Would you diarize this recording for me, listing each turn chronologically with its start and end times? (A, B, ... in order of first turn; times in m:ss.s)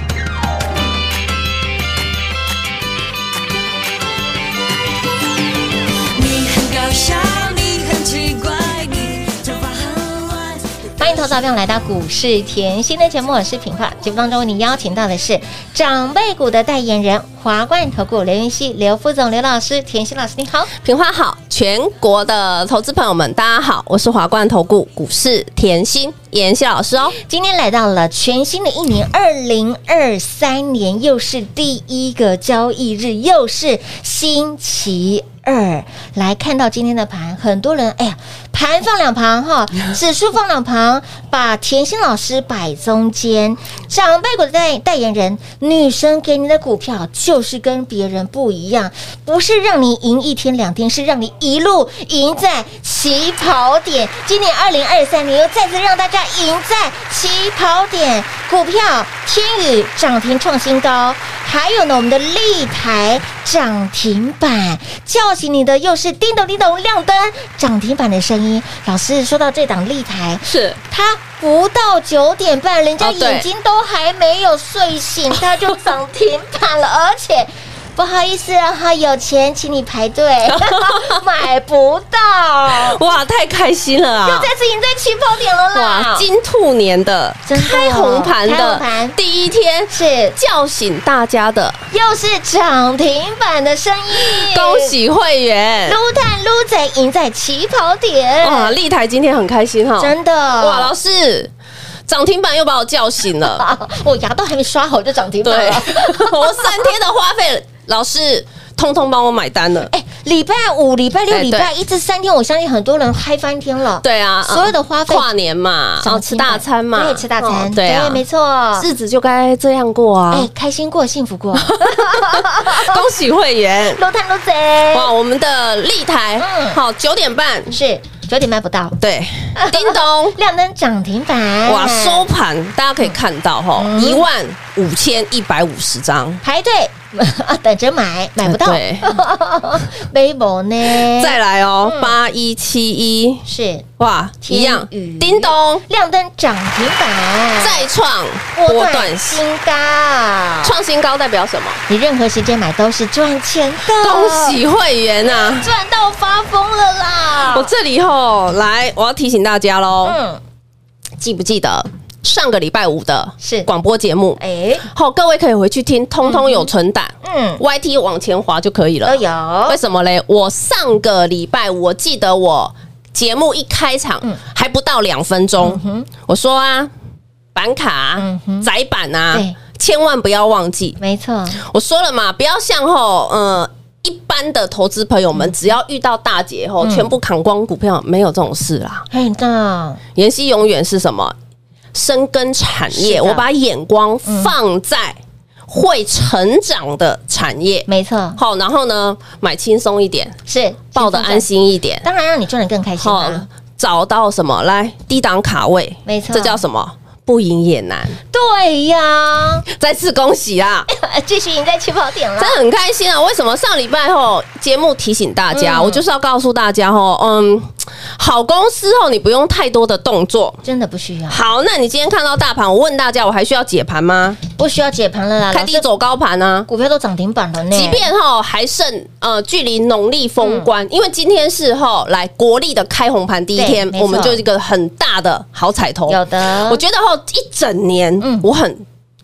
0:06.2-0:11.3 A
0:11.0-0:20.7 B
0:20.7-0:27.2 C
0:27.2-1:23.0 B
1:10.5-1:10.8 C
1:13.0-1:13.5 C
1:20.5-1:21.2 C
1:22.7-1:24.5 C
1:24.2-1:26.3 B
1:25.7-1:31.9 C
1:27.5-1:29.2 B
1:29.9-1:30.4 B
1:31.9-1:34.9 B
1:34.2-1:36.0 C
1:35.9-1:38.8 B
1:38.4-1:41.5 C
1:40.0-1:40.9 B
1:42.1-1:43.6 C
1:43.4-1:46.8 B
1:45.4-1:49.9 C
1:49.9-1:55.3 B
1:51.3-1:51.7 C
1:54.0-1:58.2 C
1:56.0-1:58.9 B
1:58.8-2:00.5 C
2:00.3-2:03.0 B
2:01.6-2:04.0 C
2:04.0-2:05.1 B
2:04.9-2:07.8 C
2:06.4-2:06.8 B
2:07.7-2:09.0 B
2:09.0-2:10.4 C
2:09.6-2:12.3 B
2:11.7-2:16.4 C
2:13.8-2:14.3 B
2:16.4-2:22.2 B
2:18.4-2:19.2 C
2:21.0-2:23.4 C
2:23.4-2:23.8 B
2:24.0-2:25.8 C
2:24.4-2:27.9 B
2:27.6-2:29.4 C
2:28.6-2:30.8 B
2:30.6-2:31.8 C
2:31.9-2:34.6 B
2:34.0-2:35.7 C
2:35.2-2:37.7 B
2:37.5-2:40.2 C
2:40.0-2:40.4 B
2:41.2-2:44.4 C
2:43.4-2:43.7 B
2:44.4-2:44.8 B
2:44.9-2:56.9 C
2:46.2-2:46.7 B
2:47.2-2:47.6 B
2:49.0-2:49.8 B
2:55.6-2:56.1 B
2:57.6-3:01.0 C
2:58.2-2:58.7 B
2:59.3-2:59.6 B
3:01.0-3:01.6 B
3:01.6-3:09.1 C
3:06.8-3:07.1 B
3:09.1-3:10.0 B
3:10.2-3:11.4 C
3:11.9-3:20.4 C
3:12.9-3:13.5 B
3:14.2-3:14.5 B
3:17.9-3:18.4 B
3:20.5-3:21.5 B
3:21.0-3:22.0 C
3:22.0-3:23.5 B
3:23.0-3:28.2 C
3:26.1-3:26.6 B
3:28.3-3:29.6 B
3:29.7-3:30.9 C
3:30.9-3:32.6 B
3:32.4-3:40.6 C
3:35.5-3:36.0 B
3:40.6-3:41.4 B
3:41.3-3:44.4 C
3:44.6-3:45.9 B
3:45.5-3:46.7 C
3:46.7-3:48.1 B
3:47.7-3:58.8 C
3:50.4-3:50.7 B
3:53.6-3:54.4 B
3:56.1-3:56.8 B
3:58.2-3:58.5 B